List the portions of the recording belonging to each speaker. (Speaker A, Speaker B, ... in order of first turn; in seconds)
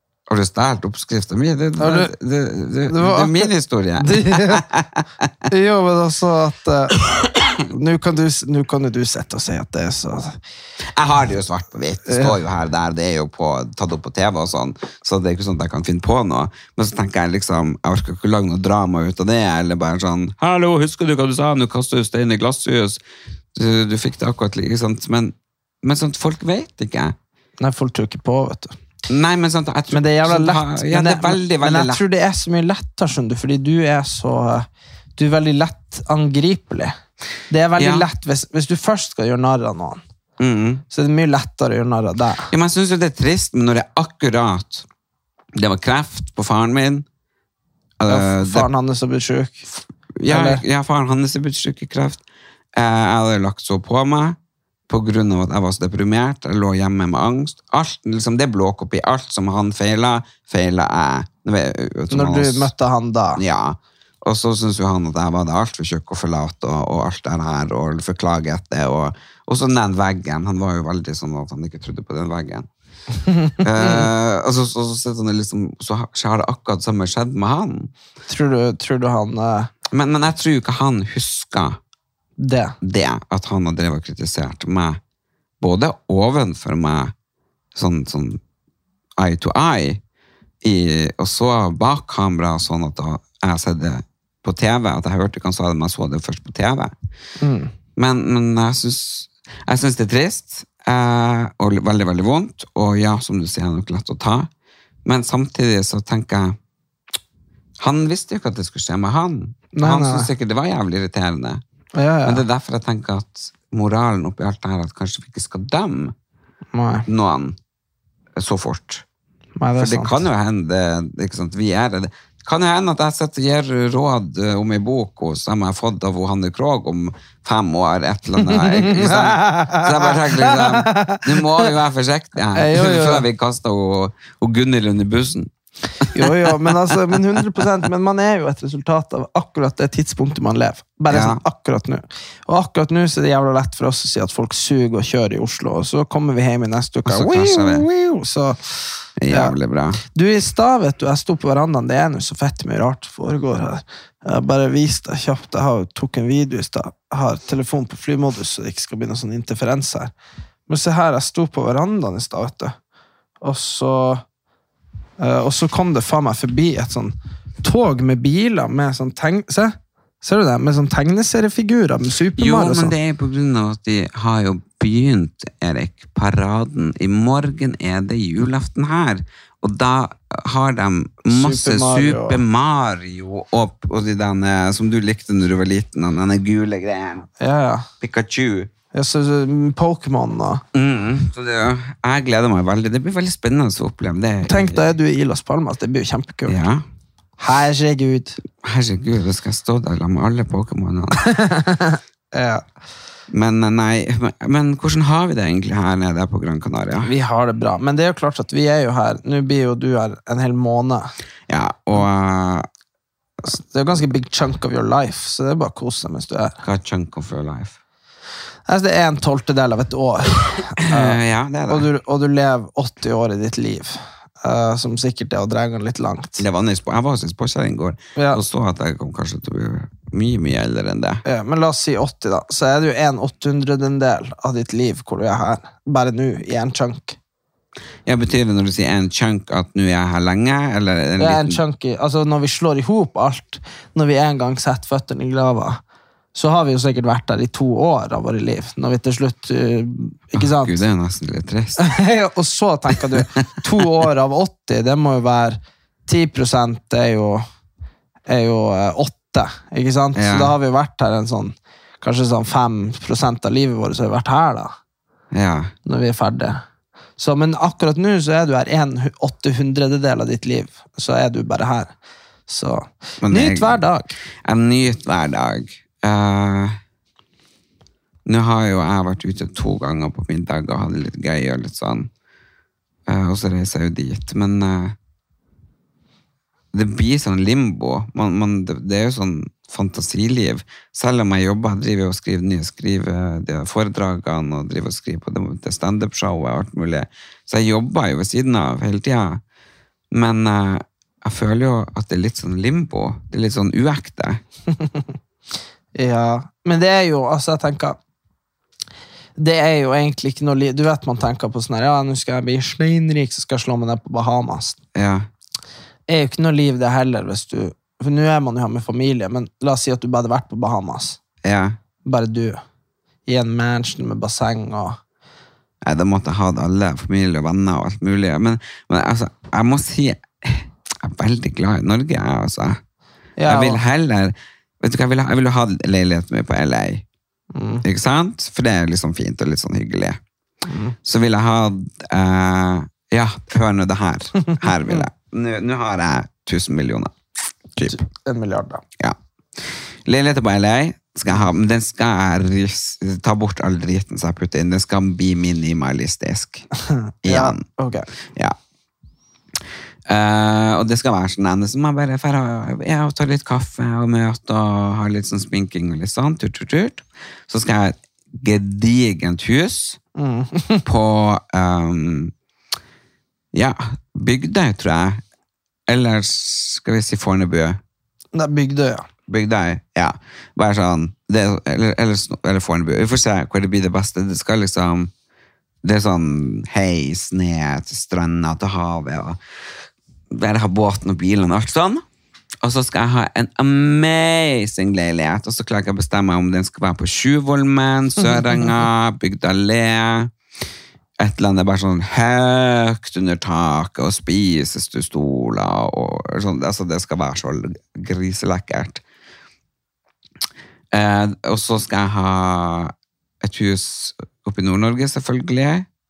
Speaker A: 0.3-5.3, 10.9-23.0, 23.5-27.2, 29.1-32.0, 37.8-38.1, 40.4-40.8, 42.5-44.9, 45.5-47.1, 48.0-48.7, 50.2-52.2, 52.8-54.4, 54.9-62.7, 63.4-72.7, 73.6-77.9, 79.9-81.8, 82.8-85.0, 85.6-87.1, 87.7-88.4, 89.2-90.0, 90.6-96.9, 98.0-104.5, 105.0-106.6, 107.8-111.6, 112.2-116.2, 117.1-117.6, 118.4-119.0, 119.8-137.2, 141.1-141.4, 147.1-147.9, 149.2-150.0, 172.4-187.3, 188.0-188.7, 190.7-194.9, 196.5-196.8, 198.6-201.3, 203.3-207.1, 211.5-212.7, 216.6-217.8, 220.9-221.9, 226.4-231.2, 238.1-241.6, 250.3-251.9, 260.1-260.5, 265.3-265.7, 273.2-273.8, 274.4-276.8, 278.3-282.1, 283.1-285.0, 286.7-299.4, 300.1-304.4, 314.9-315.3, 321.4-321.8, 325.8-332.8, 333.5-337.1, 337.8-340.2, 341.0-347.1, 347.8-348.0, 349.0-356.7, 357.2-357.6, 358.3-358.6, 360.1-370.0, 370.9-372.3, 373.5-375.2, 375.9-377.8, 379.3-385.1, 385.8-389.4, 390.3-392.1, 392.6-400.3, 401.2-409.0, 410.9-415.9
Speaker B: 1.8-2.1, 2.9-4.6, 5.5-7.0, 7.6-10.4, 12.1-12.4, 27.6-28.8, 29.9-36.9, 37.5-40.0, 40.9-42.5, 48.1-49.6, 50.3-50.6, 62.1-63.4, 73.3-74.1, 78.3-79.7, 82.4-82.8, 97.4-97.7, 109.7-110.3, 112.0-112.4, 116.7-117.1, 119.6-120.2, 128.4-131.7, 132.6-133.3, 136.1-148.6, 149.3-149.6, 150.1-160.1, 160.7-162.8, 163.4-164.2, 165.2-172.9, 181.3-182.4, 187.4-187.9, 188.9-190.6, 194.4-196.6, 197.4-198.4, 201.3-202.6, 207.0-211.1, 213.4-216.6, 218.7-221.2, 221.7-226.4, 228.2-228.4, 231.2-237.2, 241.2-245.8, 246.3-250.8, 251.8-257.4, 258.3-264.7, 265.9-266.6, 267.2-271.9, 272.5-274.1, 305.9-308.0, 309.4-314.8, 316.1-321.2, 322.1-322.6, 323.3-325.0, 333.4-333.8, 337.5-337.8, 340.7-341.0, 347.9-348.8, 357.2-358.1, 370.2-370.8, 378.4-379.1